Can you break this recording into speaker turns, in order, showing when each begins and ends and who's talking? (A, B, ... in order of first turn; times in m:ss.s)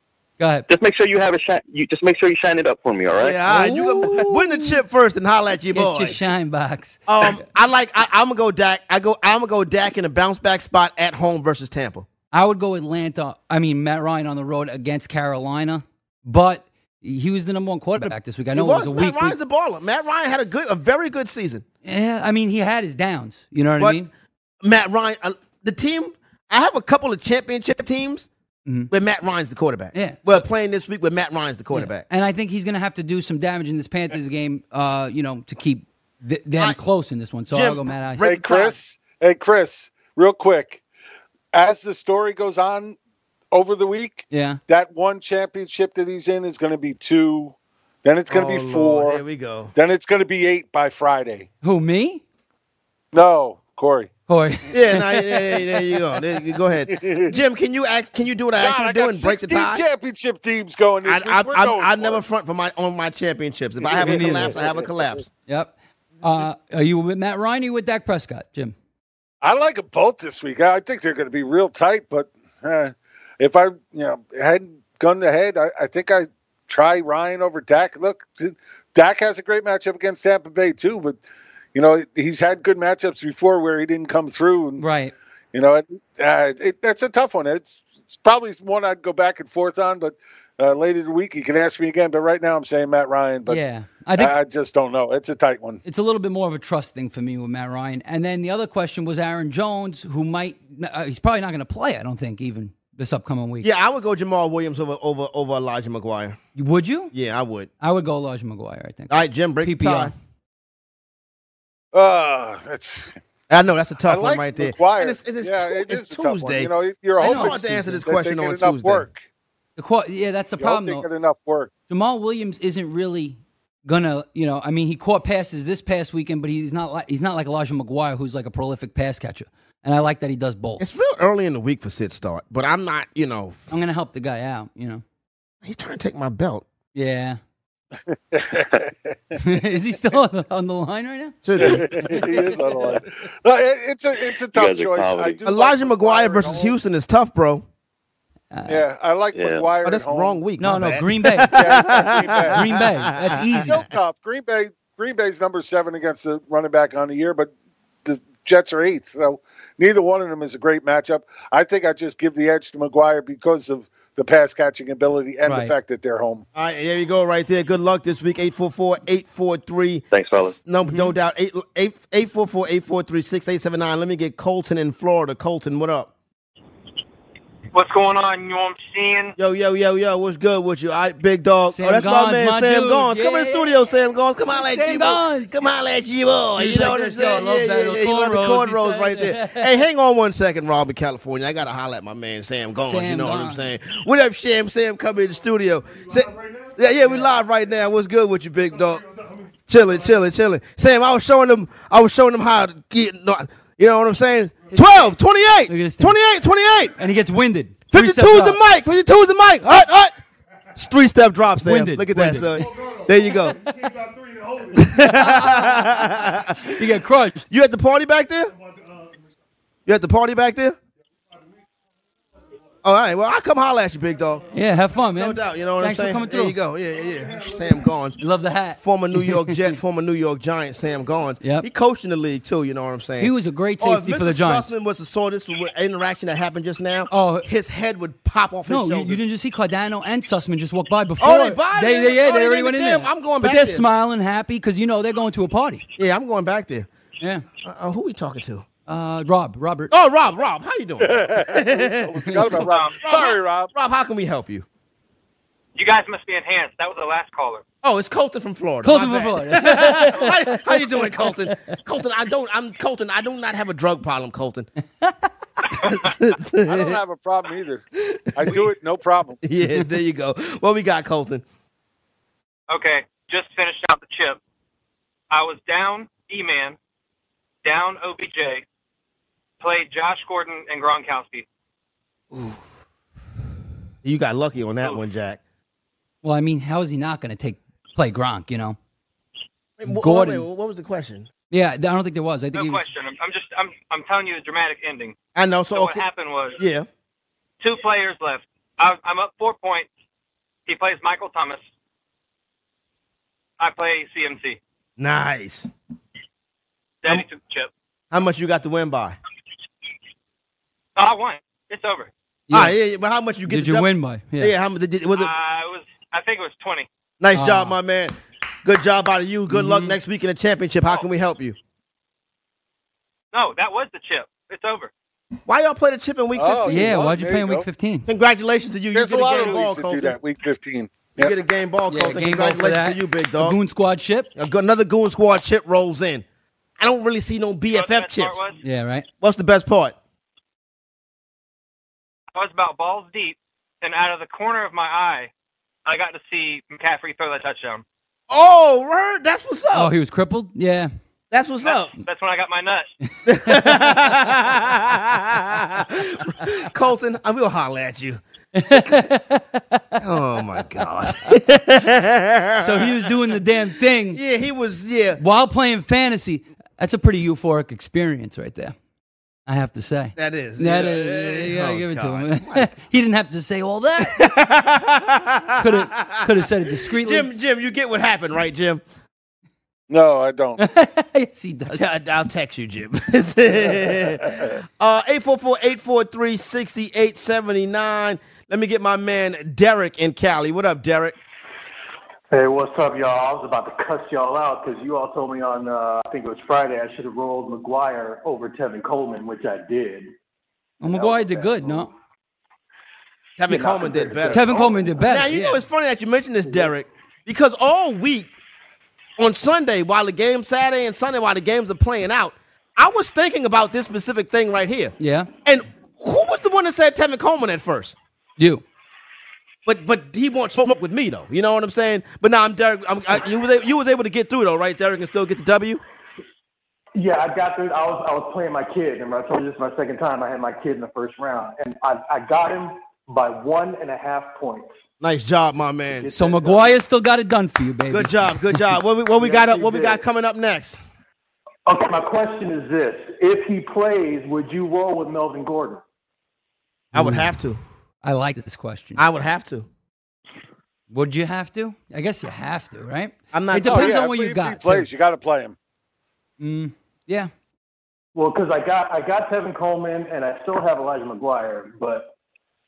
0:00.4-0:00.6 A
0:00.7-0:03.4 B
0:03.2-0:06.2 C
0:03.5-0:04.8 A
0:05.7-0:07.4 A
0:07.1-0:12.1 C
0:12.3-0:19.4 A
0:18.0-0:21.6 C
0:21.8-0:24.1 A
0:24.6-0:28.3 C
0:28.9-0:32.0 C
0:29.9-0:30.4 A
0:31.7-0:38.3 A
0:37.5-0:38.8 C
0:38.2-0:40.8 D
0:41.5-0:43.0 D
0:43.5-0:49.2 D
0:44.3-0:44.6 A
0:48.3-0:49.7 C
0:49.7-0:51.5 D
0:51.6-0:52.2 A
0:53.1-0:54.1 D
0:54.3-0:55.8 A
0:54.7-0:59.8 C
0:56.9-0:57.3 D
0:58.6-1:02.2 D
1:01.0-1:05.3 C
1:03.9-1:05.2 D
1:04.0-1:04.6 A
1:05.5-1:08.7 A
1:09.4-1:21.2 D
1:21.7-1:24.8 D
1:24.8-1:25.1 A
1:25.5-1:33.6 D
1:33.5-1:34.3 A
1:34.1-1:35.8 D
1:35.8-1:43.7 A
1:43.6-1:46.4 C
1:46.6-1:47.1 A
1:47.1-1:47.7 C
1:47.8-1:50.1 A
1:49.1-1:50.1 C
1:51.9-1:53.2 D
1:53.5-1:59.0 C
1:54.0-1:59.2 D
1:57.2-1:58.0 A
1:59.8-2:01.0 A
2:00.6-2:01.7 D
2:01.9-2:10.8 A
2:10.8-2:13.6 C
2:13.7-2:15.0 A
2:15.6-2:16.6 C
2:16.9-2:17.4 A
2:18.3-2:19.4 D
2:19.4-2:22.9 A
2:21.4-2:22.2 C
2:21.6-2:26.8 D
2:24.5-2:25.4 B
2:25.4-2:27.6 C
2:28.5-2:28.8 A
2:28.7-2:30.4 D
2:29.3-2:29.7 B
2:29.8-2:33.8 C
2:30.6-2:31.7 A
2:31.5-2:32.7 D
2:32.5-2:33.8 A
2:33.6-2:37.5 D
2:38.0-2:46.4 D
2:45.4-2:45.7 A
2:46.6-2:56.1 C
2:50.1-2:50.6 B
2:57.7-2:59.3 E
2:59.4-3:19.1 C
3:01.7-3:03.9 A
3:04.5-3:05.5 A
3:06.6-3:09.8 A
3:12.9-3:13.7 A
3:19.6-3:26.9 C
3:25.7-3:26.2 A
3:27.0-3:28.6 A
3:27.9-3:30.2 C
3:30.7-3:33.6 C
3:31.6-3:32.7 A
3:33.5-3:33.9 A
3:34.7-3:36.8 C
3:34.7-3:36.1 A
3:36.6-3:37.4 A
3:37.5-3:38.6 C
3:39.9-3:40.8 C
3:42.8-3:44.5 C
3:44.5-3:46.6 A
3:45.0-3:48.2 C
3:48.2-3:49.7 A
3:48.8-3:59.2 C
3:51.4-3:51.7 A
3:53.2-3:54.7 A
3:57.1-3:57.5 A
3:58.7-4:05.8 A
4:01.2-4:03.9 C
4:06.0-4:06.9 C
4:07.6-4:08.6 C
4:08.9-4:09.9 A
4:09.9-4:14.6 C
4:11.0-4:13.7 D
4:12.2-4:12.6 A
4:12.6-4:13.0 E
4:15.8-4:17.6 E
4:17.8-4:24.7 C
4:18.8-4:21.6 A
4:25.7-4:27.0 C
4:26.6-4:27.8 D
4:28.0-4:28.6 C
4:28.3-4:29.4 D
4:29.4-4:31.4 C
4:32.7-4:34.4 E
4:35.3-4:36.8 E
4:37.6-4:38.6 E
4:39.6-4:41.4 E
4:44.0-4:45.4 C
4:46.2-4:48.8 A
4:49.8-4:51.3 C
4:49.9-4:50.5 A
4:51.5-4:52.8 A
4:52.5-4:55.1 E
4:55.3-4:56.0 C
4:55.7-4:56.6 E
4:56.6-4:56.9 C
4:57.6-4:59.9 E
5:00.7-5:01.6 E
5:03.6-5:04.6 E
5:05.0-5:05.7 C
5:07.0-5:07.7 E
5:08.1-5:09.2 C
5:11.0-5:12.1 E
5:12.5-5:12.8 A
5:12.5-5:15.3 C
5:13.5-5:14.5 A
5:15.1-5:16.9 E
5:17.2-5:21.6 C
5:17.3-5:17.8 A
5:19.5-5:20.0 A
5:23.3-5:24.9 E
5:25.4-5:26.9 C
5:26.4-5:27.6 D
5:26.7-5:28.1 A
5:28.1-5:30.2 C
5:28.9-5:31.3 D
5:31.2-5:33.6 C
5:31.9-5:34.3 A
5:34.4-5:36.2 C
5:36.8-5:38.4 C
5:37.7-5:38.6 E
5:38.6-5:39.1 A
5:39.2-5:40.0 C
5:42.3-5:45.3 E
5:45.9-5:47.8 E
5:48.3-5:49.9 C
5:49.7-5:50.9 A
5:51.3-5:51.9 C
5:51.6-5:52.9 E
5:53.2-5:54.2 A
5:53.3-5:59.0 C
5:58.6-5:59.9 A
6:00.0-6:03.4 C
6:02.6-6:04.2 A
6:04.1-6:05.2 C
6:05.2-6:08.7 A
6:09.5-6:14.3 A
6:10.2-6:12.7 C
6:14.0-6:18.8 C
6:15.6-6:17.3 A
6:19.9-6:20.6 D
6:20.6-6:21.8 A
6:21.7-6:31.2 C
6:32.3-6:40.1 F
6:40.8-6:41.9 A
6:40.8-6:41.9 F
6:43.4-6:48.3 C
6:43.5-6:44.9 F
6:44.3-6:45.6 A
6:46.4-6:46.7 F
6:49.2-6:58.0 C
6:55.0-6:55.3 A
6:58.4-6:58.6 A
6:59.6-7:05.8 C
7:07.0-7:14.7 F
7:15.0-7:16.1 C
7:16.0-7:16.8 F
7:16.1-7:18.7 A
7:17.9-7:20.8 C
7:19.2-7:20.0 F
7:21.6-7:25.8 F
7:26.9-7:27.6 C
7:26.9-7:27.3 A
7:28.0-7:29.0 A
7:29.0-7:29.7 C
7:30.9-7:34.9 A
7:33.3-7:34.0 C
7:33.6-7:35.6 D
7:36.4-7:37.3 A
7:38.1-7:42.1 F